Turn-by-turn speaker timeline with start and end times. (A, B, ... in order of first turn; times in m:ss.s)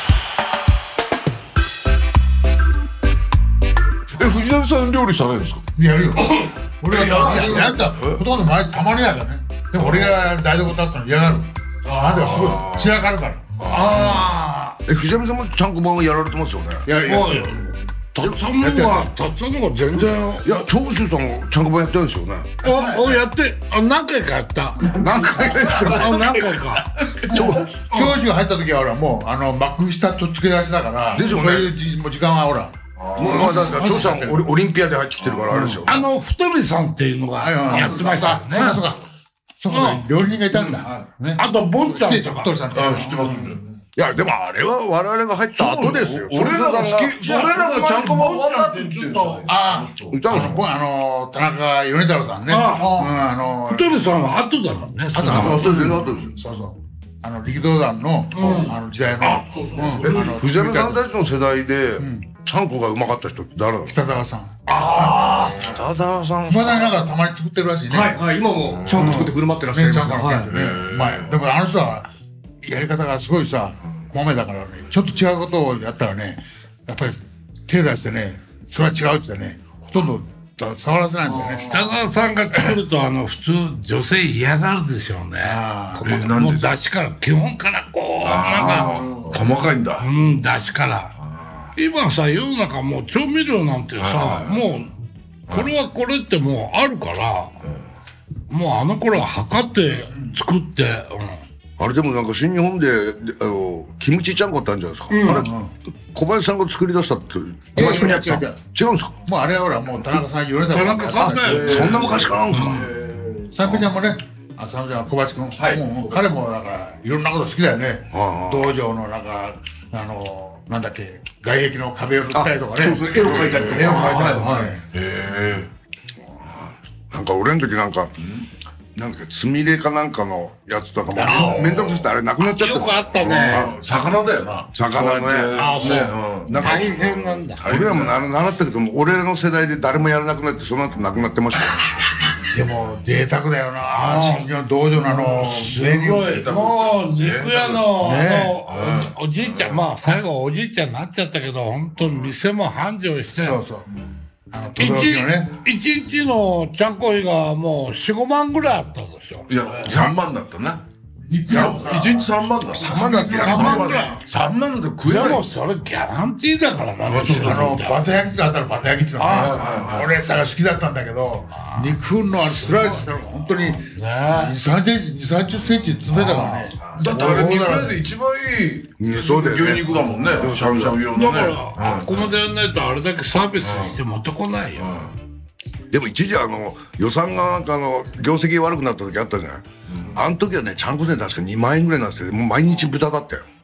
0:04.1-0:05.6 A
0:05.8-0:13.9 B
0:06.9-0:08.2 A
0:07.0-0:07.7 C
0:09.8-0:10.2 A
0:12.1-0:13.0 A
0:13.6-0:14.2 A
0:13.7-0:14.8 C
0:14.8-0:16.9 D
0:16.8-0:19.1 B
0:17.0-0:17.6 C
0:18.1-0:20.6 C
0:20.4-0:22.6 D
0:22.6-0:28.1 C
0:22.6-0:23.2 B
0:24.9-0:26.4 D
0:27.2-0:27.7 D
0:27.3-0:34.4 B
0:31.1-0:31.7 D
0:33.0-0:34.0 A
0:33.1-0:36.0 D
0:35.2-0:35.8 A
0:35.5-0:35.8 B
0:35.8-0:38.8 C
0:37.4-0:39.0 B
0:39.6-0:43.5 B
0:39.7-0:42.6 C
0:42.7-0:43.7 A
0:44.0-0:47.2 D
0:45.6-0:50.5 A
0:47.2-0:49.5 C
0:49.5-0:53.9 B
0:50.1-0:50.6 D
0:52.5-0:53.1 C
0:53.7-0:55.7 C
0:55.1-1:01.0 B
0:55.3-0:55.7 A
0:55.3-0:56.3 D
0:58.3-1:00.4 C
1:00.1-1:04.0 D
1:02.0-1:02.3 B
1:03.9-1:05.5 B
1:04.7-1:05.6 C
1:05.0-1:07.0 D
1:06.5-1:08.2 B
1:07.9-1:10.5 E
1:08.7-1:09.2 A
1:08.9-1:12.1 B
1:10.5-1:11.4 A
1:12.6-1:21.8 B
1:21.7-1:29.2 C
1:25.4-1:26.1 B
1:26.0-1:26.7 A
1:28.2-1:30.1 A
1:30.0-1:31.1 C
1:31.2-1:31.7 A
1:31.8-1:35.0 C
1:34.0-1:34.6 A
1:35.5-1:37.5 C
1:38.5-1:41.4 C
1:41.8-1:49.2 D
1:45.1-1:45.5 C
1:45.3-1:45.7 B
1:47.7-1:48.6 B
1:47.8-1:48.2 E
1:49.3-1:52.3 B
1:50.7-1:52.8 C
1:51.4-1:53.5 A
1:51.5-1:52.9 D
1:53.5-2:04.8 B
1:55.6-1:55.8 E
1:58.1-1:58.8 D
2:02.3-2:04.7 E
2:03.1-2:04.0 A
2:04.9-2:05.7 A
2:06.5-2:08.3 D
2:08.9-2:13.7 D
2:11.1-2:12.0 B
2:11.4-2:12.0 A
2:12.4-2:13.7 C
2:13.3-2:16.9 A
2:14.7-2:22.0 D
2:15.6-2:17.6 C
2:17.6-2:18.2 A
2:22.5-2:26.4 B
2:23.9-2:24.5 C
2:25.2-2:33.6 C
2:26.3-2:28.0 A
2:28.0-2:28.6 B
2:28.7-2:29.8 A
2:33.3-2:33.9 B
2:34.5-2:35.5 B
2:34.8-2:40.1 C
2:39.5-2:40.8 A
2:41.3-2:44.0 B
2:41.4-2:45.4 A
2:42.7-2:44.0 D
2:43.4-2:44.2 C
2:45.0-2:48.0 C
2:47.0-2:47.7 A
2:47.2-2:58.0 B
2:49.2-2:49.7 C
2:49.3-2:50.1 A
2:51.6-2:54.6 C
2:56.1-2:56.8 C
2:56.9-3:02.3 A
2:59.0-3:01.0 D
3:01.1-3:05.0 C
3:03.6-3:03.9 A
3:04.8-3:05.1 A
3:05.9-3:13.4 D
3:09.9-3:10.2 A